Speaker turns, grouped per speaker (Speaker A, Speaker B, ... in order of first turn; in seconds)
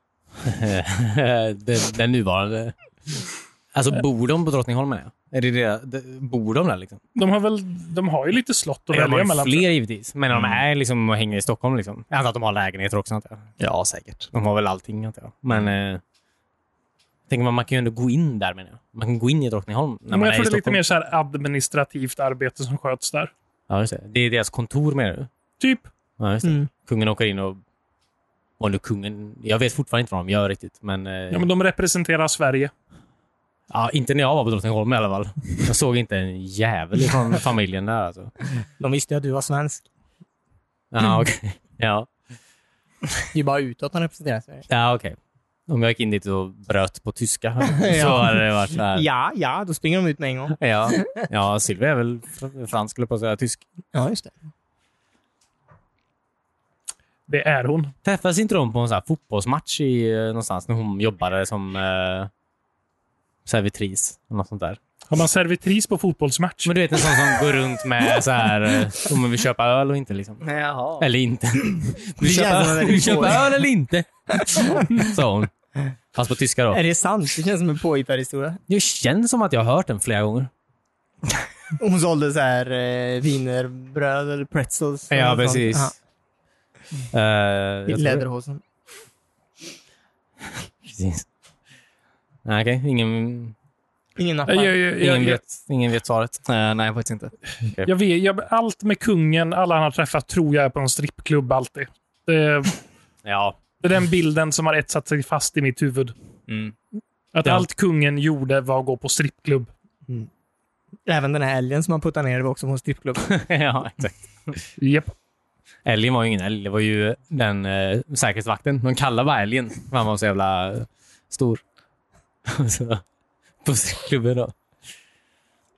Speaker A: 0.4-7.0, 8.9-13.5, 14.3-16.0, 17.3-20.8, 23.7-25.3, 26.2-27.6, 28.6-31.5, 33.7-38.3, 40.9-42.1, 44.7-45.2, 45.7-49.0, 50.5-53.6, 58.0-62.3, 63.5-64.8, 66.6-70.4, 71.0-75.5, 76.1-76.8, 78.7-80.5, 85.1-85.9, 87.1-88.2, 90.8-91.2, 92.4-93.5, 95.0-96.4, 103.2-103.6, 113.2-114.5, 115.8-121.6, 122.5-123.0, 123.6-124.5
Speaker B: 7.1-9.7, 20.1-23.3, 25.6-25.9, 31.3-32.7, 57.3-57.9, 65.1-66.7, 94.5-95.4, 97.8-102.8, 103.8-106.1, 107.3-109.7, 114.8-115.1
Speaker C: 10.3-10.6, 13.6-14.3, 70.4-71.1, 96.4-97.3, 106.5-106.7
Speaker D: 26.4-26.7, 38.8-39.8, 43.3-44.6, 47.6-51.2, 53.9-54.3, 72.2-73.5, 74.4-74.9, 76.7-78.6, 81.8-85.9, 87.9-88.6, 94.2-94.8, 111.0-113.3